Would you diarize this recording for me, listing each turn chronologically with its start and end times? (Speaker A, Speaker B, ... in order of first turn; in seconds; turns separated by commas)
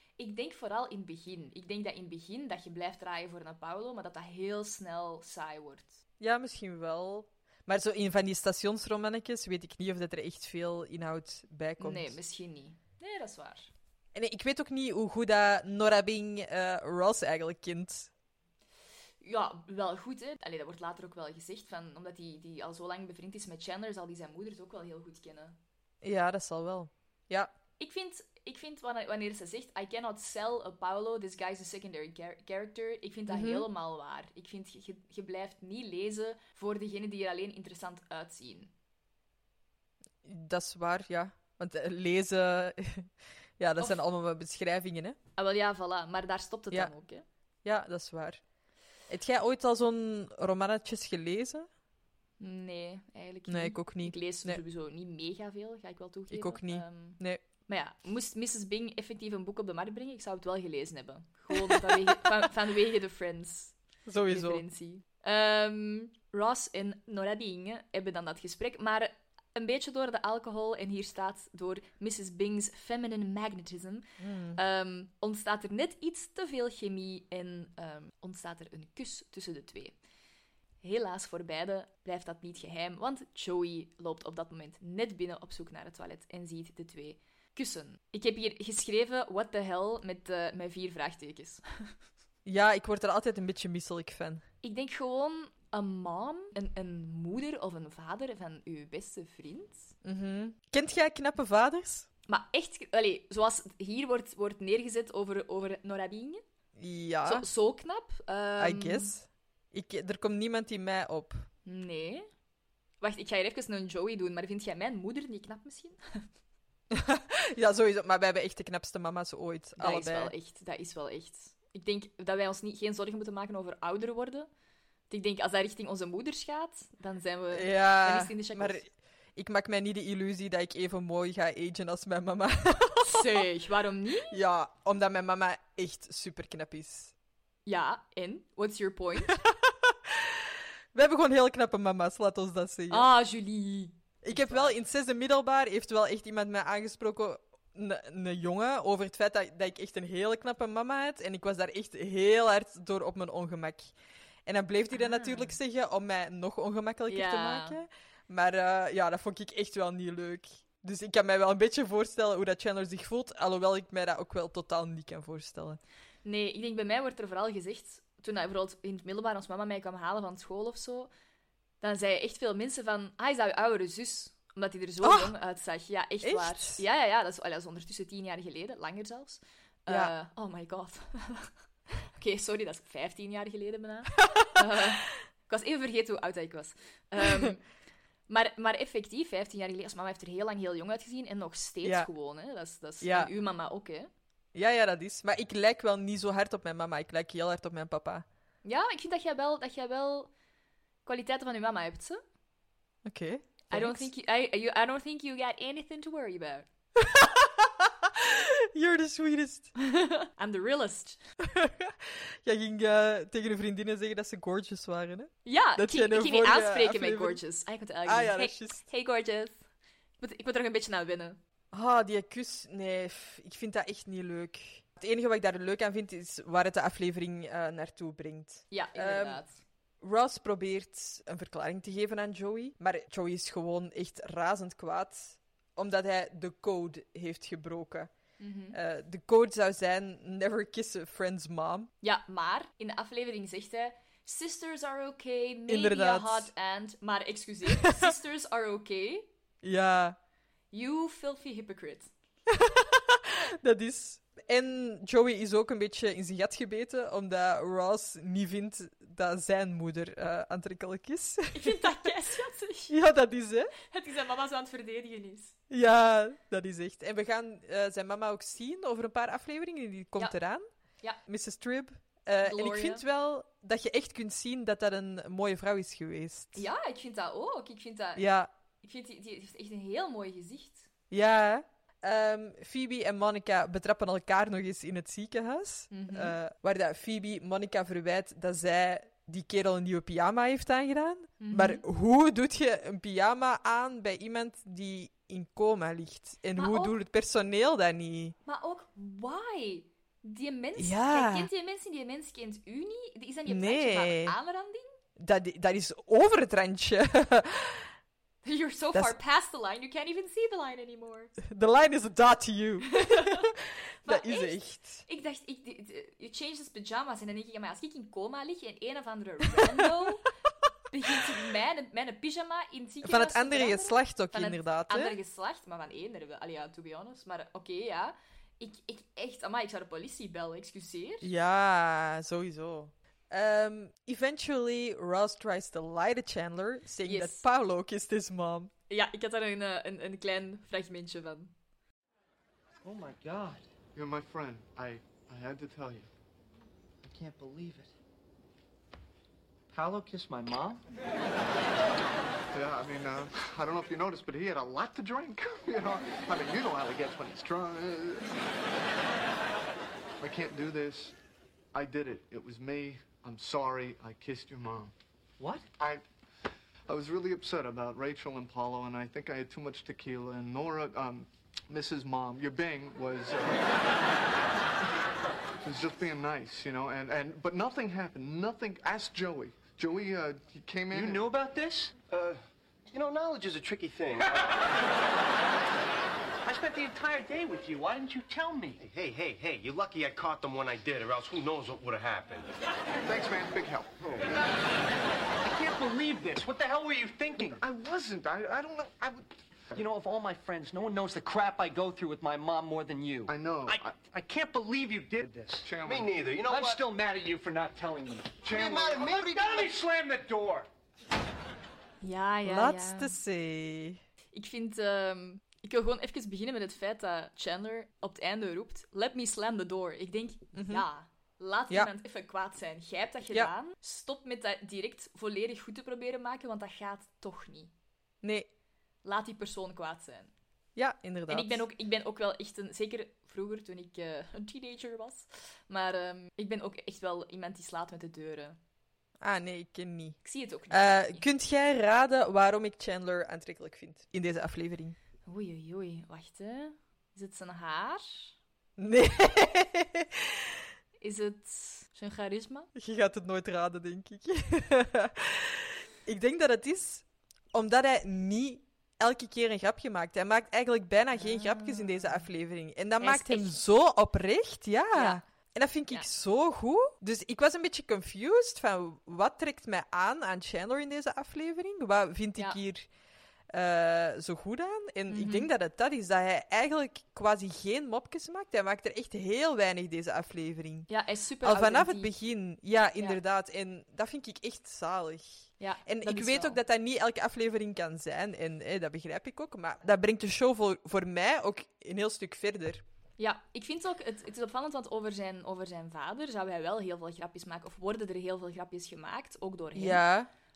Speaker A: 0.2-6.0, Speaker B: 6.2-12.2, Speaker A: 11.8-13.7, Speaker B: 14.2-18.1, Speaker A: 19.2-25.6, Speaker B: 26.0-27.5, Speaker A: 27.8-38.7, Speaker B: 33.3-33.7, Speaker B: 40.2-45.2, Speaker A: 45.4-47.2, Speaker B: 47.6-48.4, Speaker B: 49.1-51.7, Speaker A: 52.4-80.0, Speaker B: 53.5-54.6, Speaker B: 56.3-57.4, Speaker B: 61.5-62.3, Speaker B: 64.1-64.6, Speaker B: 74.2-74.6, Speaker A: 80.8-91.9, Speaker B: 92.5-94.4, Speaker A: 94.6-99.9, Speaker B: 100.0-102.1, Speaker A: 102.3-106.4, Speaker B: 106.8-107.5, Speaker A: 107.2-109.1, Speaker B: 108.6-111.5, Speaker A: 111.7-112.3, Speaker A: 113.0-116.2, Speaker B: 116.9-120.3, Speaker A: 119.8-124.5, Speaker A: 125.1-128.8, Speaker B: 127.5-133.2, Speaker A: 133.0-134.4, Speaker B: 134.3-137.1, Speaker A: 137.7-139.4, Speaker B: 139.3-140.4, Speaker B: 140.9-143.1, Speaker A: 142.9-144.8, Speaker B: 144.2-153.9, Speaker B: 154.5-165.8, Speaker A: 154.9-155.6, Speaker A: 157.1-157.8, Speaker A: 166.2-171.1, Speaker A: 171.8-181.5, Speaker B: 175.0-175.3, Speaker B: 176.2-176.8, Speaker A: 182.0-187.6, Speaker A: 188.3-194.1, Speaker B: 193.0-193.3, Speaker B: 194.5-198.3, Speaker A: 198.6-200.3, Speaker A: 201.1-202.2, Speaker B: 203.1-204.1, Speaker A: 203.7-206.7, Speaker B: 207.0-209.7, Speaker A: 209.8-211.2, Speaker B: 211.5-217.4, Speaker A: 215.4-219.6, Speaker B: 218.1-218.8, Speaker A: 220.2-221.4, Speaker B: 221.7-229.4, Speaker A: 228.7-229.6, Speaker B: 230.0-238.1, Speaker A: 238.4-238.8, Speaker B: 238.7-241.9, Speaker A: 242.0-249.3, Speaker B: 245.7-246.5, Speaker B: 247.8-248.1, Speaker B: 249.6-250.2, Speaker A: 250.7-252.1, Speaker B: 252.5-261.9, Speaker A: 261.5-262.9, Speaker B: 262.9-263.7, Speaker A: 263.8-265.6, Speaker B: 265.7-270.6, Speaker B: 271.3-276.6, Speaker A: 272.4-273.0, Speaker A: 276.6-278.2, Speaker B: 278.2-278.5, Speaker A: 278.8-280.9, Speaker B: 281.1-298.4, Speaker A: 285.9-286.4, Speaker A: 291.4-291.8, Speaker A: 296.6-296.9, Speaker A: 298.5-304.9, Speaker B: 300.8-301.5, Speaker B: 303.5-304.4, Speaker B: 305.2-307.9, Speaker A: 308.4-311.4, Speaker B: 311.5-313.5, Speaker A: 312.9-313.5, Speaker A: 314.0-320.3, Speaker B: 314.1-315.1, Speaker A: 320.9-331.3, Speaker B: 323.0-325.1, Speaker B: 331.2-338.7, Speaker A: 337.1-337.4, Speaker A: 338.9-341.5, Speaker C: 342.8-343.6, Speaker D: 343.9-346.1, Speaker C: 347.0-347.9, Speaker C: 349.7-350.8, Speaker D: 352.5-358.3, Speaker D: 360.2-361.1, Speaker D: 361.7-364.9, Speaker C: 365.4-365.6, Speaker D: 365.8-366.0, Speaker D: 366.9-373.8, Speaker D: 375.6-381.2, Speaker C: 380.9-381.9, Speaker E: 382.1-382.4, Speaker E: 382.9-384.6, Speaker C: 386.4-388.8, Speaker E: 388.8-392.5, Speaker D: 393.0-394.0, Speaker E: 394.0-394.3, Speaker C: 395.4-397.6, Speaker D: 397.4-399.8, Speaker C: 399.8-405.7, Speaker D: 403.3-403.9, Speaker D: 405.6-406.2, Speaker E: 405.9-406.8, Speaker C: 406.4-410.7, Speaker D: 408.4-409.3, Speaker E: 408.5-409.5, Speaker A: 412.0-413.1, Speaker B: 412.4-414.0, Speaker A: 414.3-427.7, Speaker B: 420.5-420.9, Speaker B: 428.2-428.5, Speaker A: 429.0-430.3, Speaker B: 430.8-431.6, Speaker A: 431.3-438.6, Speaker B: 439.2-440.2, Speaker A: 440.2-441.2, Speaker B: 440.7-445.0, Speaker A: 445.3-448.3, Speaker B: 448.8-450.3, Speaker A: 451.0-452.7, Speaker B: 452.8-472.9, Speaker A: 461.2-462.3, Speaker A: 463.0-463.6, Speaker A: 464.9-465.2, Speaker B: 473.5-480.9, Speaker A: 475.1-475.5, Speaker A: 480.9-482.1, Speaker B: 481.4-492.8, Speaker A: 485.6-486.6, Speaker A: 493.2-500.0, Speaker B: 499.8-500.3